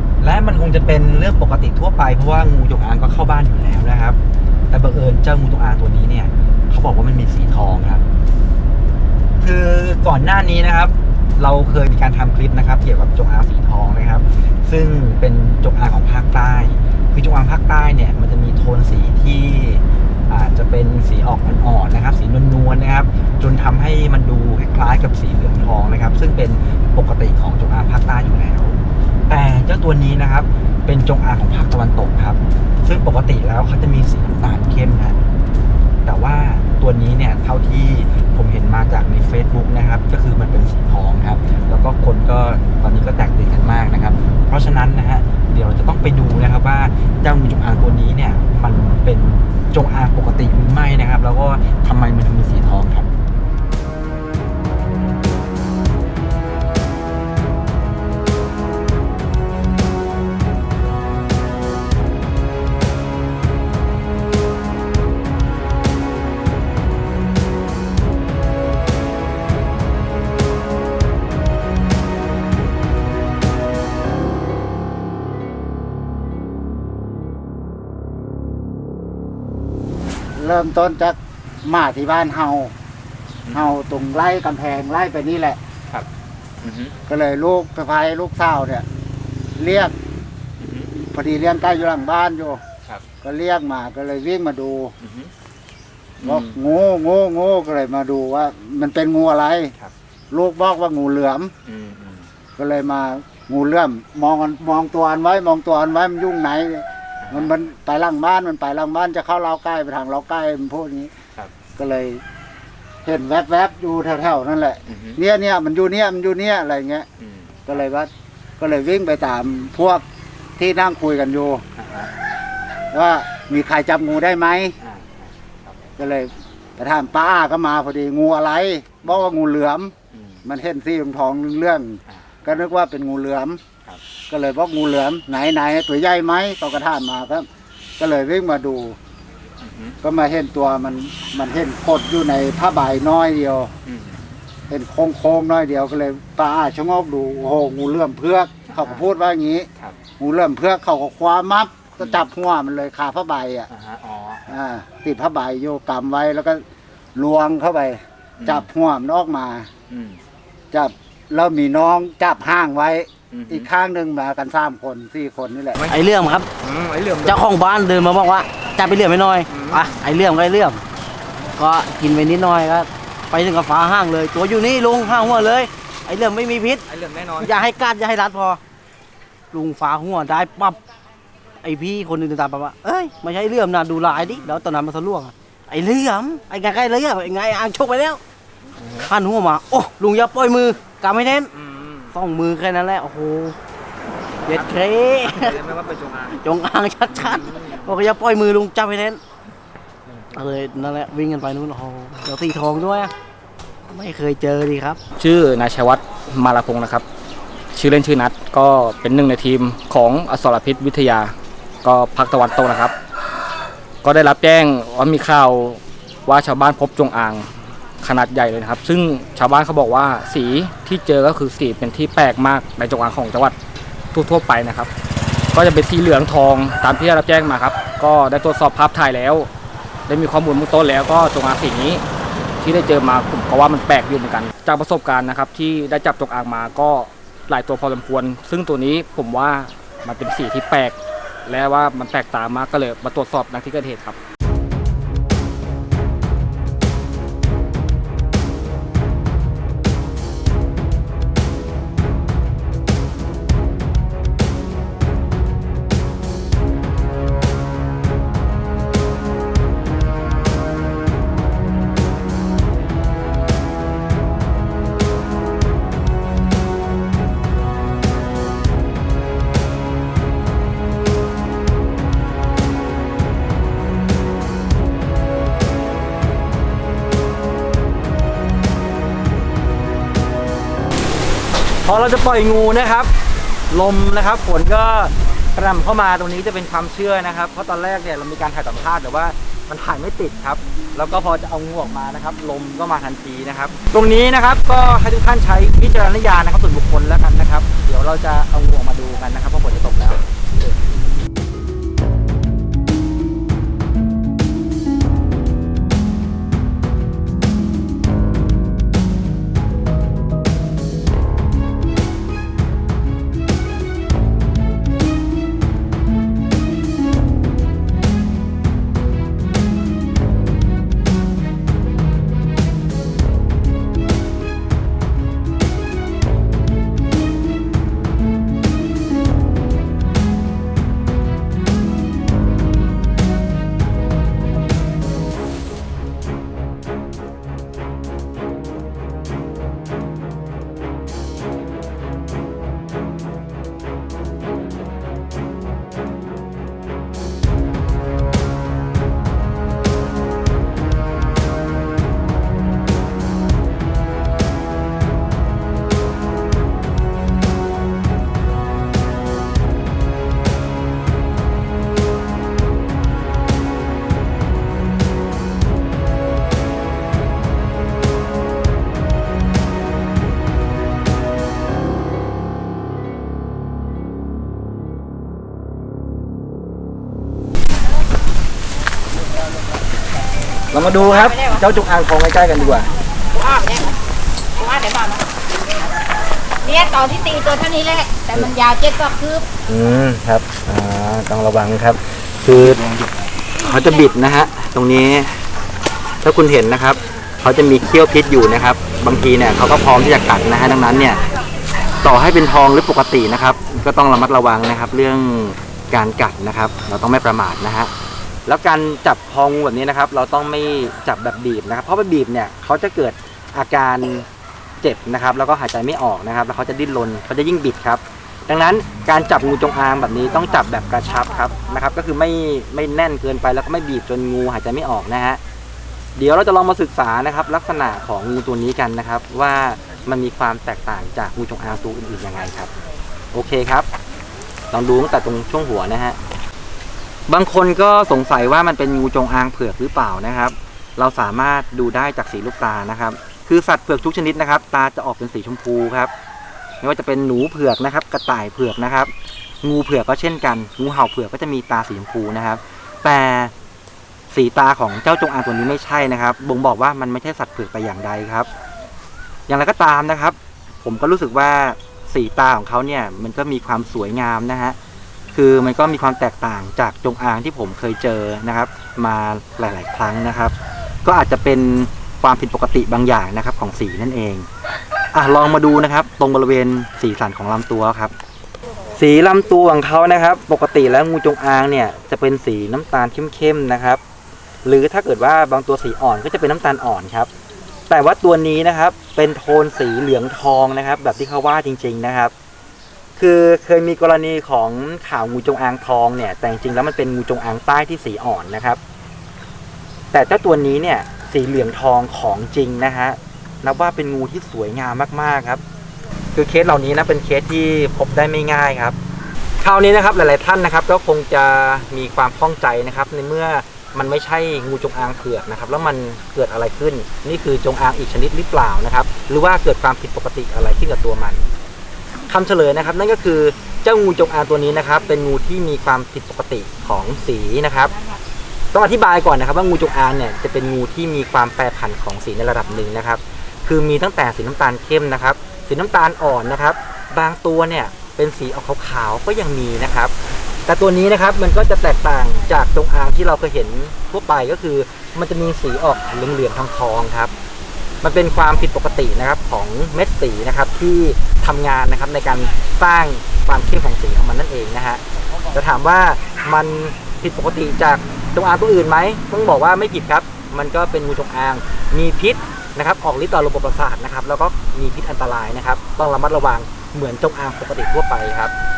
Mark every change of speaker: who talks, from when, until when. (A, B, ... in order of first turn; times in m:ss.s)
0:00.2-0:04.2 A
0:04.7-0:08.0 A
0:09.4-0:35.2 A
0:36.0-0:53.1 A
1:20.4-1:22.7 B
1:23.4-1:23.8 A
1:23.5-1:25.6 B
1:26.6-1:27.0 A
1:27.1-1:28.8 B
1:29.6-1:29.9 B
1:30.6-1:30.9 A
1:30.9-1:32.6 B
1:33.2-1:34.9 B
1:35.0-1:35.3 A
1:36.2-1:36.6 A
1:36.2-1:39.7 B
1:40.3-1:41.5 B
1:41.6-1:42.3 A
1:42.6-1:51.1 B
1:47.2-1:47.5 A
1:51.8-1:52.2 B
1:53.0-1:57.0 B
1:54.9-1:55.2 A
1:57.2-1:57.8 A
1:57.7-2:00.0 B
2:00.6-2:01.6 B
2:01.8-2:02.1 A
2:02.9-2:04.8 B
2:04.8-2:05.8 A
2:06.0-2:09.9 B
2:10.1-2:10.4 A
2:10.4-2:13.6 B
2:14.3-2:17.5 B
2:18.0-2:19.0 B
2:19.6-2:20.0 A
2:20.0-2:23.7 B
2:23.8-2:24.3 A
2:24.7-2:29.7 B
2:28.7-2:29.0 A
2:30.2-2:33.7 B
2:33.7-2:34.5 A
2:34.5-2:36.6 B
2:37.2-2:39.7 B
2:38.4-2:38.7 A
2:39.9-2:40.2 A
2:40.7-2:45.9 B
2:43.3-2:43.7 A
2:45.9-2:46.5 C
2:46.6-2:47.3 D
2:47.2-2:50.8 C
2:49.5-2:49.8 D
2:51.6-2:58.6 C
2:56.9-2:57.4 D
2:59.5-3:00.8 C
3:01.6-3:08.2 C
3:09.0-3:11.5 C
3:11.6-3:12.1 D
3:12.1-3:13.6 C
3:14.4-3:15.7 C
3:15.4-3:16.3 D
3:16.2-3:19.2 C
3:20.3-3:23.1 C
3:23.9-3:25.0 C
3:25.2-3:27.0 D
3:27.7-3:32.9 D
3:34.0-3:37.5 D
3:38.0-3:43.6 D
3:44.1-3:44.9 D
3:45.5-3:49.5 D
3:50.1-3:52.0 D
3:52.6-4:04.2 D
4:41.8-4:43.1 A
4:43.7-5:00.7 A
6:20.7-6:22.9 A
6:23.3-6:23.9 E
6:24.6-6:25.2 E
6:26.6-6:29.4 E
6:29.6-6:35.4 A
6:36.2-6:41.2 A
6:42.0-6:47.9 A
6:48.4-6:54.3 A
6:54.8-7:05.4 A
7:06.2-7:12.7 A
7:13.3-7:13.9 A
7:14.7-7:16.2 A
7:17.3-7:26.1 A
7:26.8-7:33.5 A
7:34.3-7:38.5 A
7:39.5-7:44.8 A
7:45.3-7:54.4 A
7:55.1-7:58.1 A
7:58.9-8:04.0 A
8:04.6-8:07.3 A
8:07.9-8:12.3 A
8:13.2-8:18.8 A
8:20.1-8:25.6 A
8:26.3-8:29.0 A
8:29.6-8:41.5 A
8:42.3-8:47.9 A
8:48.7-9:00.1 A
9:00.6-9:07.3 A
9:08.0-9:28.5 A